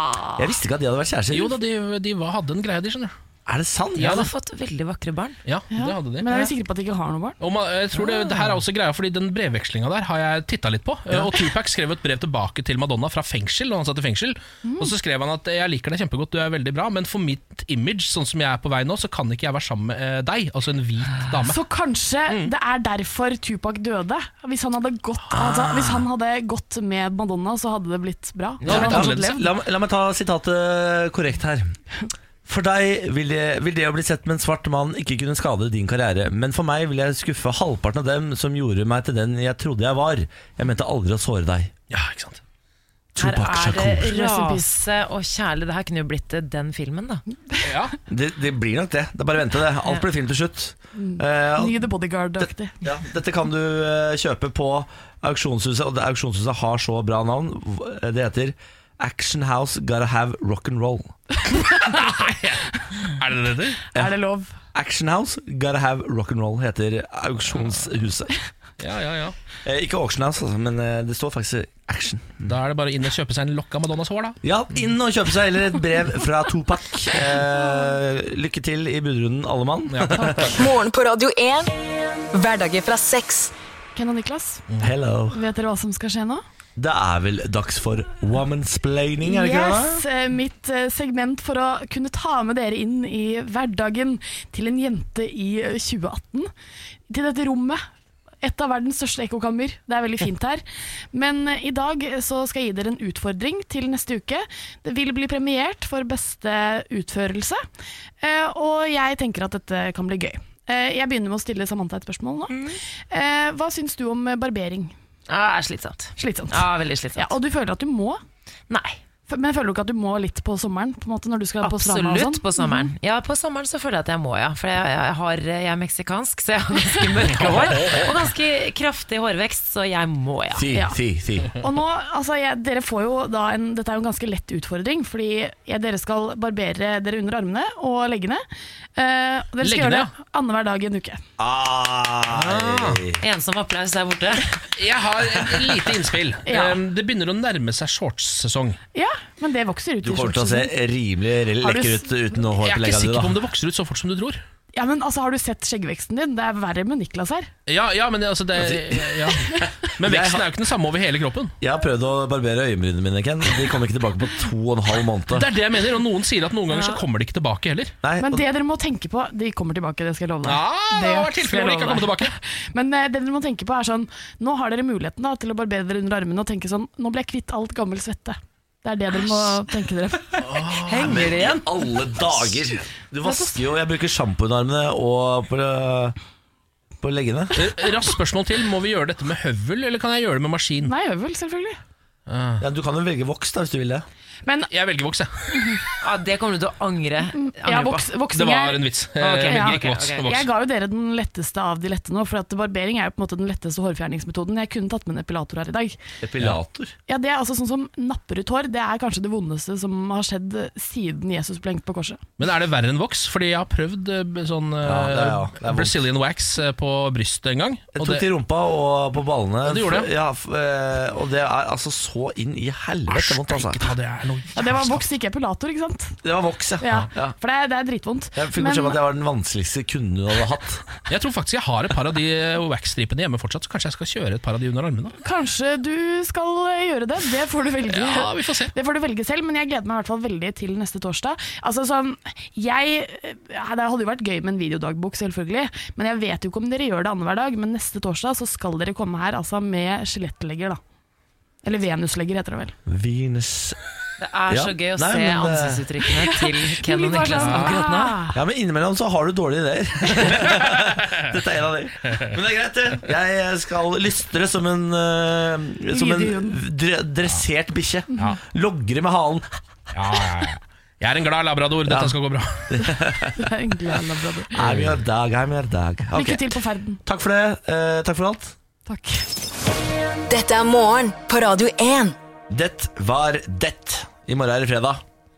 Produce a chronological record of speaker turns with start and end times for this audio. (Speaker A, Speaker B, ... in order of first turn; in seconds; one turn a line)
Speaker A: 0.4-1.5
Speaker B: 1.3-3.1
Speaker A: 3.5-4.3
Speaker C: 4.0-5.4
Speaker B: 4.0-4.3
Speaker B: 5.5-6.3
Speaker D: 5.7-7.4
Speaker B: 7.4-21.6
Speaker D: 14.6-14.9
Speaker D: 21.5-29.4
Speaker B: 22.3-22.5
Speaker B: 25.6-25.9
Speaker B: 28.6-29.4
Speaker A: 28.7-31.8
Speaker A: 32.5-41.7
Speaker B: 41.9-42.4
Speaker A: 43.1-44.1
Speaker C: 43.2-47.2
Speaker D: 44.0-44.7
Speaker B: 47.6-47.9
Speaker A: 48.1-51.9
Speaker D: 51.0-52.8
Speaker A: 52.4-61.1
Speaker D: 61.7-62.0
Speaker B: 61.8-63.8
Speaker D: 63.9-64.5
Speaker A: 64.7-68.3
Speaker B: 68.8-69.4
Speaker A: 69.6-72.5
Speaker B: 72.5-74.4
Speaker A: 74.4-80.5
Speaker B: 79.9-80.4
Speaker E: 80.5-81.8
Speaker E: 82.3-83.5
Speaker D: 84.0-84.6
Speaker A: 84.8-85.4
Speaker D: 85.3-86.4
Speaker A: 86.8-90.0
Speaker D: 89.2-96.5
Speaker D: 97.1-97.8
Speaker D: 98.4-100.6
Speaker D: 101.1-107.6
Speaker D: 108.2-112.6
Speaker C: 112.5-112.8
Speaker D: 113.1-115.0
Speaker C: 115.3-117.3
Speaker D: 116.2-118.2
Speaker C: 118.7-119.0
Speaker D: 119.3-122.9
Speaker C: 121.6-130.7
Speaker D: 126.9-127.7
Speaker A: 127.4-128.0
Speaker A: 130.6-131.5
Speaker D: 130.7-131.0
Speaker D: 131.6-138.4
Speaker D: 139.0-141.2
Speaker B: 139.6-140.1
Speaker A: 141.4-143.2
Speaker B: 142.3-143.0
Speaker C: 143.2-144.6
Speaker B: 144.8-148.8
Speaker D: 146.5-146.8
Speaker D: 148.9-150.7
Speaker A: 150.0-153.4
Speaker D: 151.6-152.1
Speaker B: 152.6-154.4
Speaker D: 154.7-157.5
Speaker B: 157.7-161.6
Speaker A: 158.6-160.5
Speaker A: 161.6-165.5
Speaker B: 165.3-168.0
Speaker A: 168.0-168.4
Speaker D: 168.2-180.7
Speaker B: 170.4-172.4
Speaker B: 180.5-181.0
Speaker C: 180.8-181.7
Speaker A: 180.9-186.2
Speaker D: 183.2-183.6
Speaker A: 187.0-187.7
Speaker B: 187.6-190.9
Speaker D: 190.8-191.8
Speaker B: 192.3-192.6
Speaker A: 192.6-194.1
Speaker D: 194.4-194.7
Speaker B: 194.7-195.8
Speaker C: 196.0-198.1
Speaker D: 197.4-198.9
Speaker B: 198.3-200.5
Speaker C: 199.2-200.3
Speaker D: 199.5-206.0
Speaker A: 206.2-206.9
Speaker D: 207.1-212.2
Speaker B: 212.4-218.3
Speaker A: 214.8-216.0
Speaker A: 217.9-223.9
Speaker B: 219.7-220.1
Speaker B: 223.1-225.0
Speaker D: 224.6-226.2
Speaker A: 226.2-227.3
Speaker D: 226.8-229.0
Speaker A: 228.3-230.8
Speaker B: 231.1-235.2
Speaker D: 235.2-250.8
Speaker B: 237.9-238.7
Speaker D: 251.6-252.8
Speaker A: 252.9-253.8
Speaker C: 254.2-258.4
Speaker A: 254.5-255.9
Speaker D: 256.1-258.2
Speaker B: 257.4-257.8
Speaker A: 258.3-269.5
Speaker B: 260.5-260.8
Speaker D: 265.9-266.6
Speaker B: 269.9-273.0
Speaker A: 271.9-272.1
Speaker A: 272.7-273.5
Speaker D: 273.4-274.6
Speaker A: 274.5-278.6
Speaker B: 274.6-275.0
Speaker D: 276.1-277.0
Speaker D: 278.9-279.3
Speaker E: 280.3-282.2
Speaker A: 282.5-285.0